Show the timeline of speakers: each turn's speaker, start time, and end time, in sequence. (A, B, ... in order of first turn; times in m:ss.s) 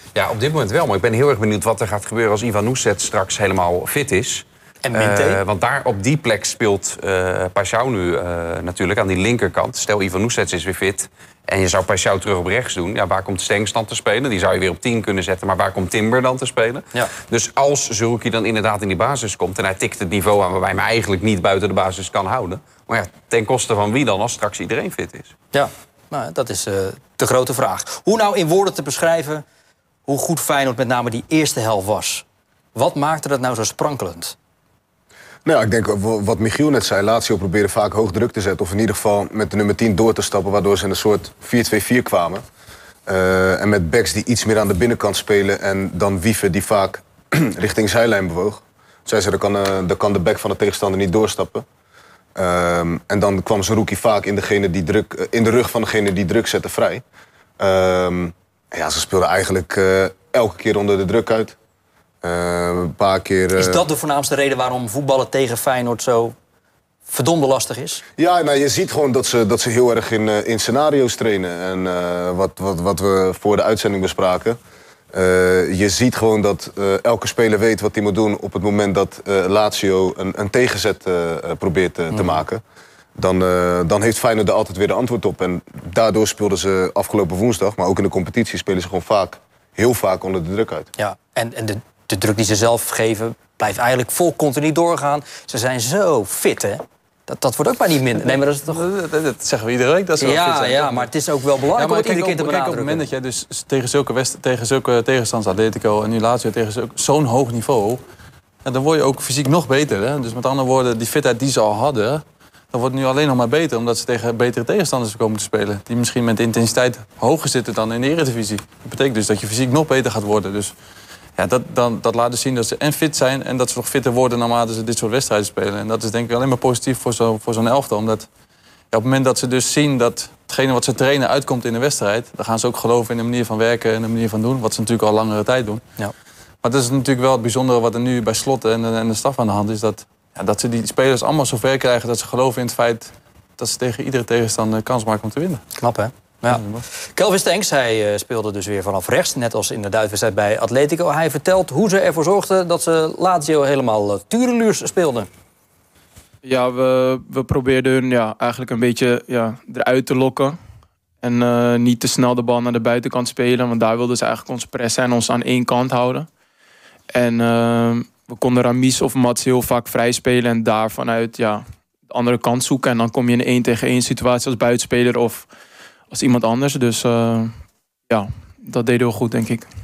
0:00.1-0:25.3 A
0:04.8-0:05.4 B
0:25.5-0:29.4 B
0:30.1-0:34.3 B
0:35.4-0:42.4 C
0:43.1-0:51.6 C
0:52.4-0:57.0 C
0:57.6-1:01.6 C
1:02.2-1:03.8 C
1:03.6-1:06.3 B
1:07.1-1:08.0 B
1:08.2-1:14.6 C
1:15.1-1:22.6 C
1:22.1-1:22.4 B
1:23.2-1:30.9 C
1:31.0-1:38.8 B
1:38.7-1:41.1 D
1:40.2-1:43.0 B
1:41.8-1:48.0 D
1:48.6-2:00.7 D
2:01.4-2:08.3 D
2:08.9-2:15.8 D
2:16.6-2:25.6 D
2:25.8-2:26.6 B
2:26.4-2:26.8 D
2:27.2-2:35.3 B
2:36.4-2:40.6 E
2:41.2-2:46.3 E
2:47.1-2:55.5 E
2:56.1-2:57.6 E
2:58.1-2:59.6 E